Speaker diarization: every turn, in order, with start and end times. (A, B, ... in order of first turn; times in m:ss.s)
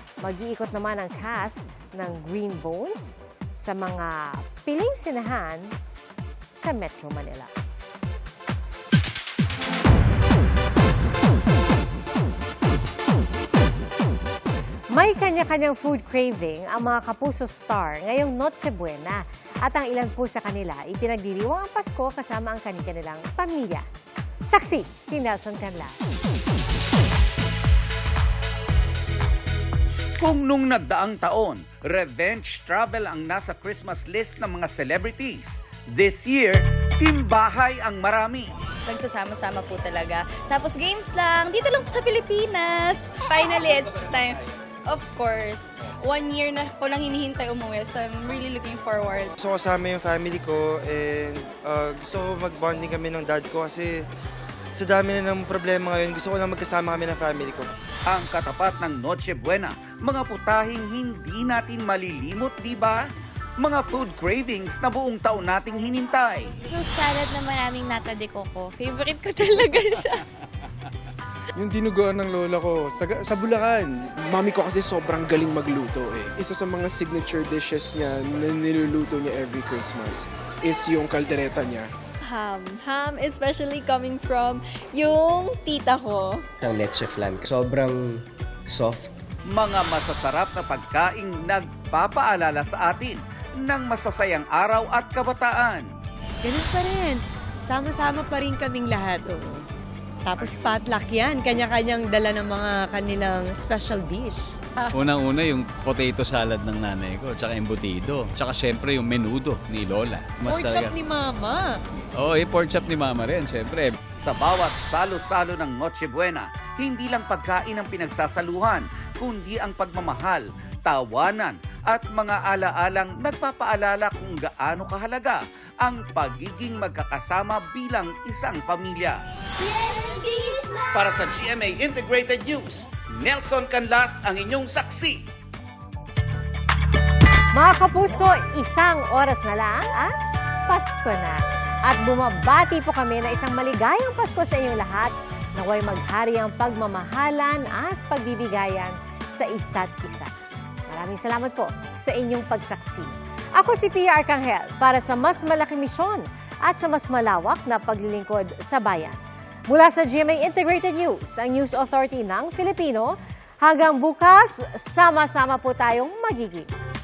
0:00.2-0:05.8 A
0:06.6-0:07.5 A
0:14.9-0:23.9 A
0:24.5-0:26.0 A
0:30.2-0:38.5 B
0:38.9-0:44.3 C
0:44.9-0:49.1 C
0:49.4-0:54.0 D
0:54.8-0:57.7 D
0:58.1-1:03.0 B
1:03.6-1:06.5 B
1:06.7-1:10.2 C
1:11.6-1:21.9 E
1:22.2-1:26.4 C
1:26.6-1:28.2 F
1:28.7-1:29.1 F
1:29.5-1:35.9 B
1:36.4-1:39.6 G
1:40.3-1:44.5 G
1:45.0-1:50.9 H
1:50.6-1:51.7 G
1:52.2-1:54.0 H
1:54.2-2:09.2 B
2:10.9-2:15.2 B
2:17.5-2:20.2 A
2:20.7-2:30.3 A
2:30.9-2:46.7 A